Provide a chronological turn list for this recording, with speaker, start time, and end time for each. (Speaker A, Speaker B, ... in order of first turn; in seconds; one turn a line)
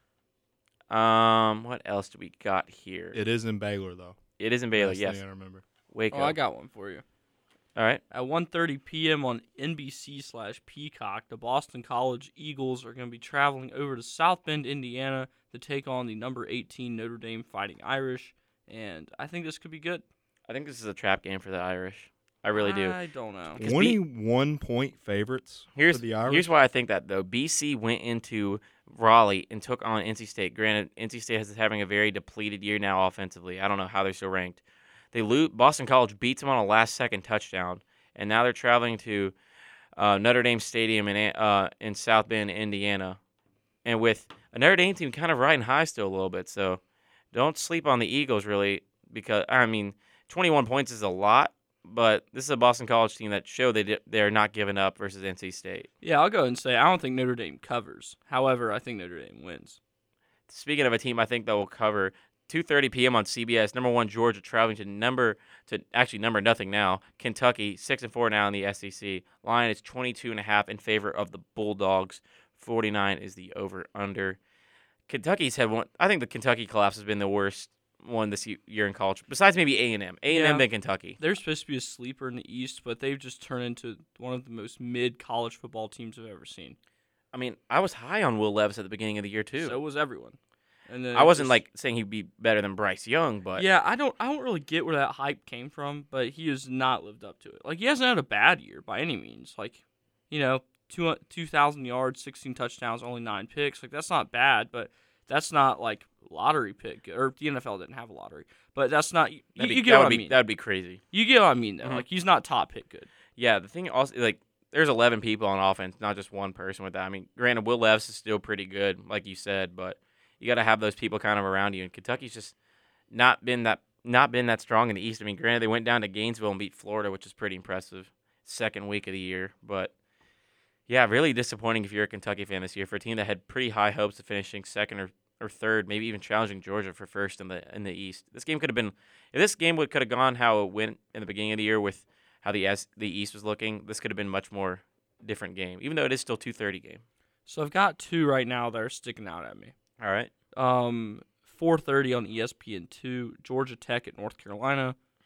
Speaker A: 0.9-3.2
Speaker B: 3.1-4.2
Speaker A: 4.4-5.2
Speaker B: 4.7-5.6
Speaker A: 5.9-6.3
Speaker C: 6.1-7.0
Speaker A: 7.8-8.0
Speaker C: 8.1-20.0
Speaker A: 20.5-22.9
Speaker C: 22.5-23.6
Speaker A: 23.6-24.0
Speaker B: 23.6-26.5
Speaker A: 25.7-39.3
Speaker A: 40.0-43.2
Speaker A: 43.8-46.8
Speaker A: 47.3-55.9
Speaker C: 56.0-59.8
Speaker A: 60.5-74.4
Speaker A: 75.1-81.2
Speaker C: 80.3-80.7
Speaker C: 81.2-86.8
Speaker A: 87.3-89.8
Speaker C: 89.6-90.4
Speaker C: 90.9-91.6
Speaker A: 91.1-93.7
Speaker C: 93.5-110.4
Speaker A: 109.6-111.0
Speaker C: 111.1-113.1
Speaker A: 113.4-122.5
Speaker A: 123.1-129.9
Speaker A: 130.9-147.0
Speaker C: 147.5-149.7
Speaker A: 150.0-150.3
Speaker C: 150.5-154.9